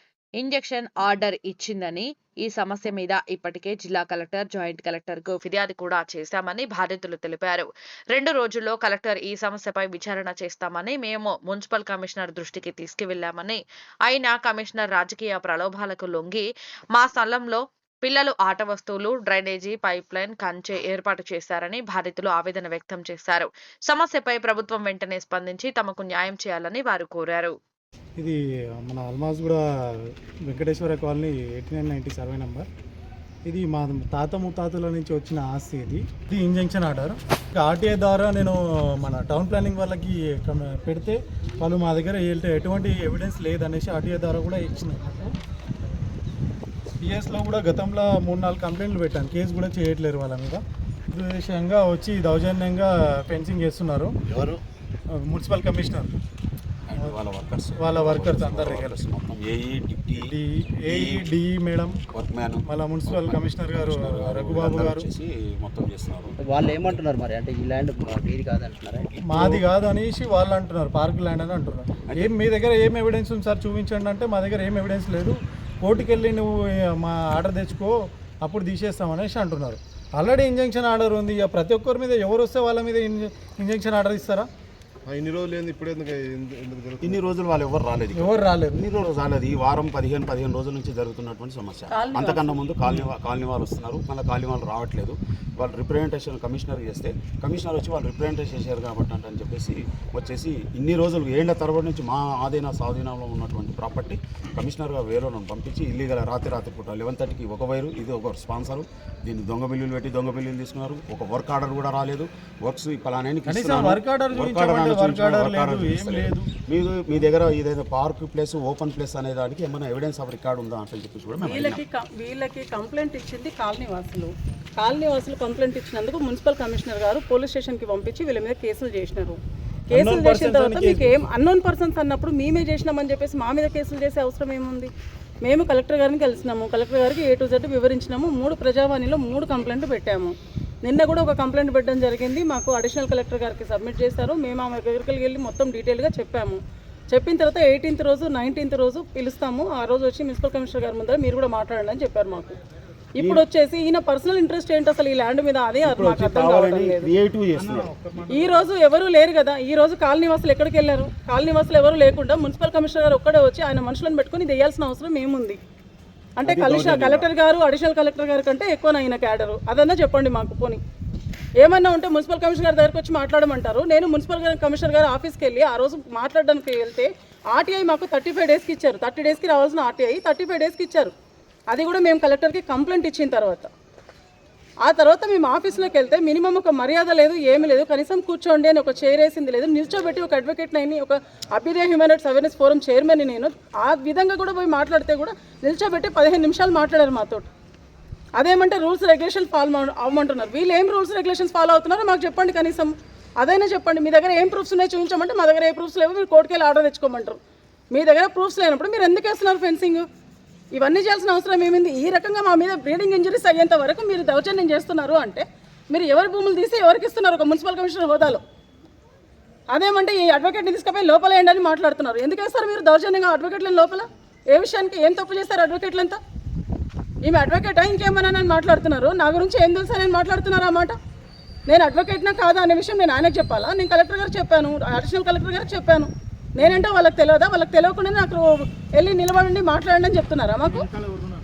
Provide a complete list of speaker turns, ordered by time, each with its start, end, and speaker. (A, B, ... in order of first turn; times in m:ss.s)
0:00.4-0:27.6 A
0:28.2-0:32.7 B
0:33.4-0:45.3 B
0:47.0-0:50.6 B
0:51.1-0:54.1 B
0:55.1-0:56.1 B
0:56.9-1:00.3 C
0:57.8-0:59.0 B
1:00.2-1:02.0 B
1:00.8-1:01.3 C
1:02.1-1:06.4 C
1:02.6-1:05.0 B
1:06.4-1:09.6 D
1:09.2-1:24.5 B
1:25.0-1:27.3 E
1:27.0-2:01.8 C
1:28.1-1:28.8 B
1:31.9-1:32.5 F
1:53.4-1:56.5 B
2:01.4-2:14.9 F
2:09.9-2:11.2 B
2:15.4-2:26.6 F
2:27.1-2:32.6 F
2:33.2-2:37.1 F
2:35.8-2:38.0 C
2:38.3-2:45.6 F
2:46.4-2:50.8 F
2:46.4-2:47.2 C
2:51.6-3:01.1 F
3:01.7-3:03.7 F
3:04.8-3:17.5 F
3:18.4-3:27.4 F
3:27.9-3:30.0 F
3:30.7-3:38.4 F
3:39.7-3:46.2 F
3:47.2-3:51.0 F
3:51.7-4:00.9 F